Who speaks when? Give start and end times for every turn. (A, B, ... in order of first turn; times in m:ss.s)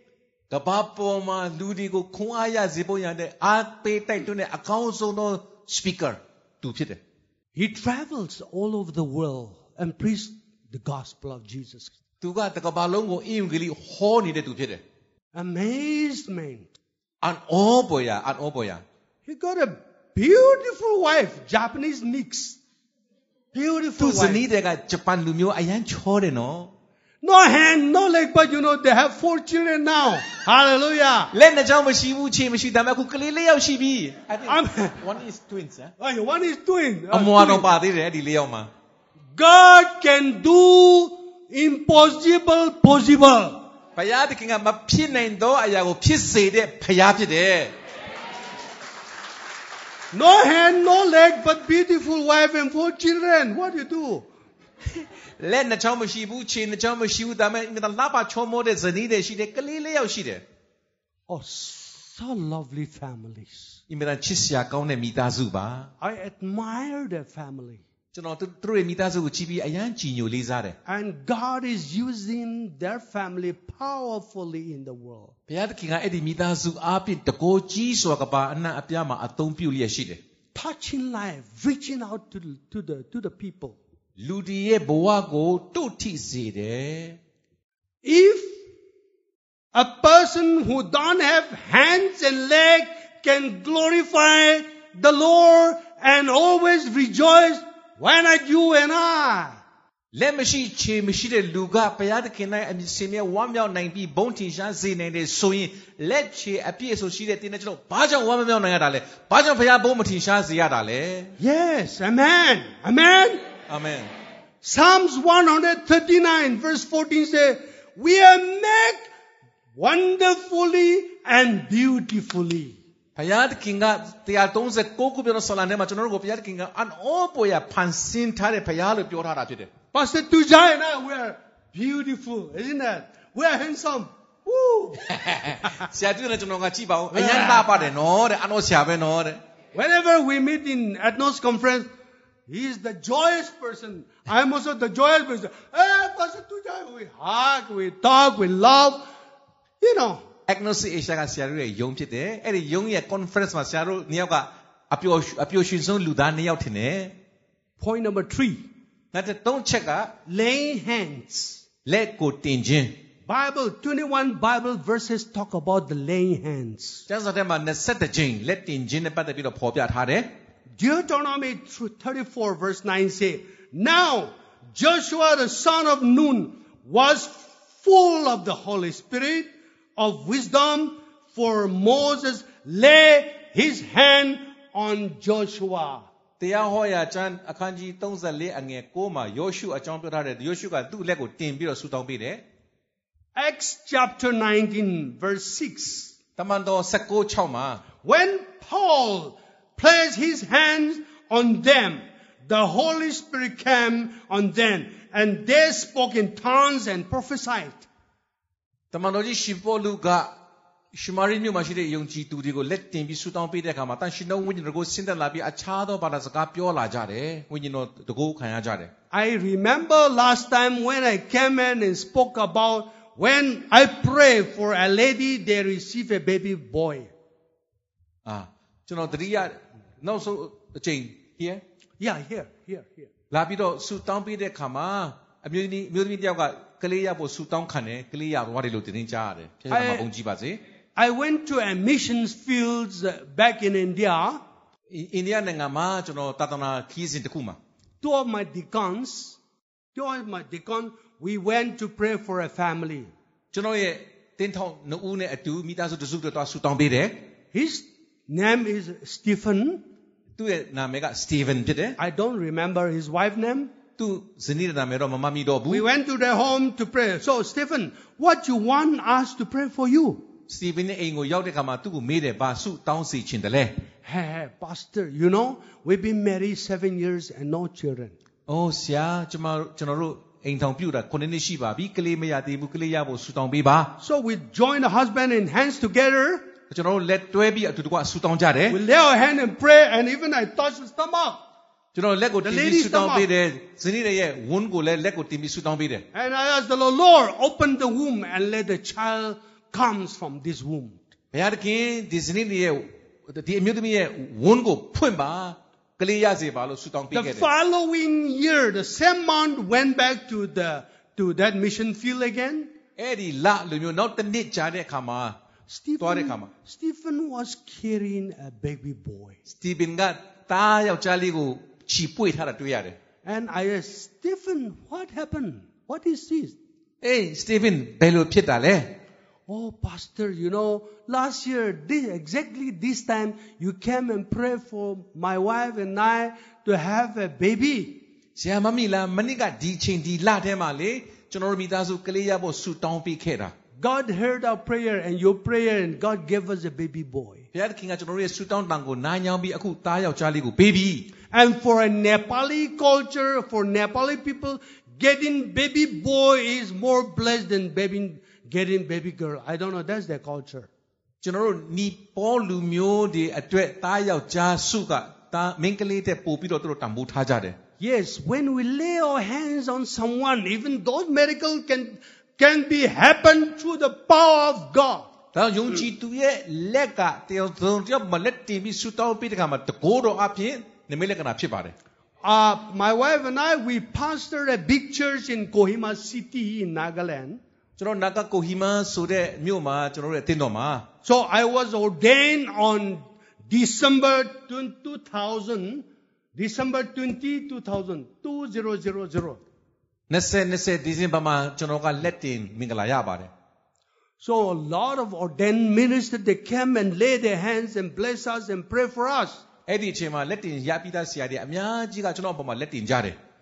0:00.5-0:07.0 A
0:07.6-0:12.0 B
0:12.2-0:14.8 A
0:15.4-0:16.7 B
0:17.2-0:18.8 A
0:19.2-0:22.6 B
0:23.5-0:24.4 B
0:24.0-0:26.7 A
0:27.2-0:31.3 B
0:31.3-0:35.9 A
0:34.5-0:35.0 B
0:36.0-0:37.7 B
0:37.1-0:38.7 A
0:39.4-0:43.6 B
0:44.0-0:47.7 A
0:50.1-0:54.3 B
0:54.9-1:00.4 A
1:01.3-1:03.8 B
1:03.9-1:05.9 A
1:06.0-1:07.8 B
1:08.1-1:10.8 A
1:10.9-1:15.4 B
1:15.5-1:20.2 A
1:20.5-1:23.8 B
1:24.2-1:27.2 A
1:28.0-1:28.6 B
1:29.7-1:39.6 B
1:40.1-1:51.4 A
1:51.4-1:53.4 B
1:53.7-1:54.1 A
1:54.6-1:59.1 B
1:59.8-2:02.8 B
2:03.2-2:09.7 A
2:09.9-2:15.8 B
2:15.1-2:19.4 A
2:17.1-2:17.8 B
2:19.7-2:21.9 B
2:22.5-2:29.1 B
2:29.8-2:30.2 B
2:30.5-2:37.2 A
2:37.8-2:38.7 B
2:39.1-2:40.1 A
2:40.3-2:41.6 B
2:41.9-2:43.0 A
2:43.3-2:47.0 B
2:47.1-2:50.3 A
2:50.8-3:06.1 B
3:06.4-3:12.4 A
3:13.4-3:16.1 B
3:16.4-3:17.8 A
3:18.0-3:27.9 B
3:28.9-3:30.3 A
3:30.9-3:38.9 A
3:39.1-3:47.1 B
3:48.3-3:51.6 A
3:52.0-3:53.1 B
3:53.3-4:00.6 A
3:59.7-4:00.1 B
4:01.0-4:04.4 B
4:04.9-4:07.6 A
4:08.0-4:09.4 B
4:09.9-4:13.1 B
4:13.5-4:17.3 A
4:17.5-4:19.8 B
4:20.4-4:22.0 A
4:22.0-4:23.7 B
4:24.0-4:25.8 A
4:25.7-4:30.3 B
4:30.5-4:33.8 A
4:34.0-4:38.2 B
4:38.5-4:43.9 A
4:44.0-4:46.5 B
4:46.7-4:48.8 A
4:48.7-4:51.4 B
4:51.9-4:56.0 A
4:52.4-4:53.3 B
4:56.1-5:01.0 B
5:01.3-5:07.5 A
5:07.1-5:12.7 B
5:13.0-5:15.4 A
5:15.7-5:19.4 B
5:16.0-5:16.5 A
5:19.5-5:23.0 A
5:23.2-5:26.6 B
5:27.0-5:29.0 A
5:29.5-5:38.0 B
5:38.4-5:43.5 A
5:43.8-5:47.5 B
5:47.5-5:51.1 A
5:51.3-6:00.7 B
6:01.2-6:07.6 A
6:07.8-6:15.1 B
6:15.3-6:21.7 A
6:22.2-6:27.4 B
6:27.8-6:30.9 A
6:31.0-6:39.4 B
6:40.1-6:43.3 A
6:44.2-6:49.4 B
6:49.7-6:53.2 A